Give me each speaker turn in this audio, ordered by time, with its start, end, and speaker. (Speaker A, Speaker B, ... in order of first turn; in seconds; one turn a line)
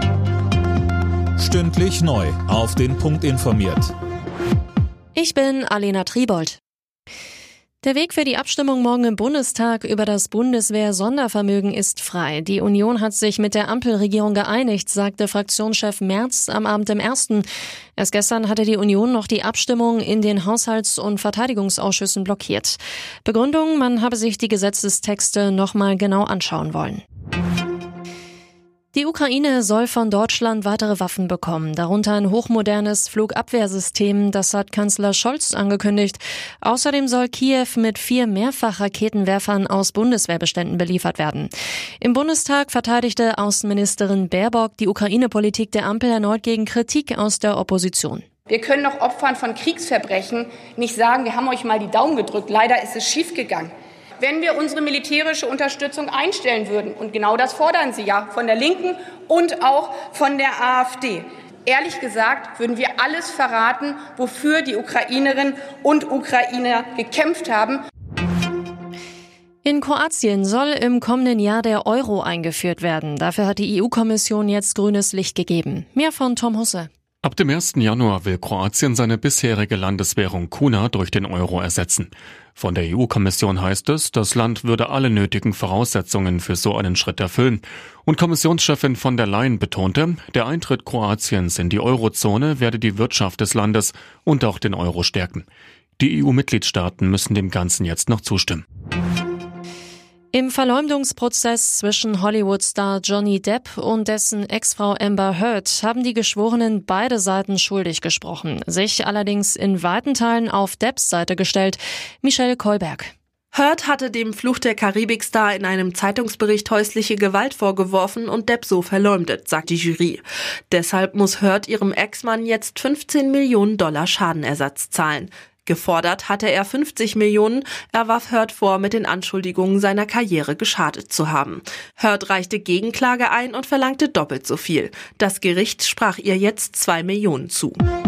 Speaker A: 1.4-3.9
Speaker B: 5.2-6.6
Speaker B: 7.8-27.0
Speaker B: 28.9-41.5
Speaker B: 42.0-48.2
Speaker C: 48.5-67.8
Speaker B: 69.6-76.9
Speaker D: 77.2-95.5
Speaker D: 96.0-98.6
Speaker B: 100.3-113.1
Speaker E: 113.5-137.8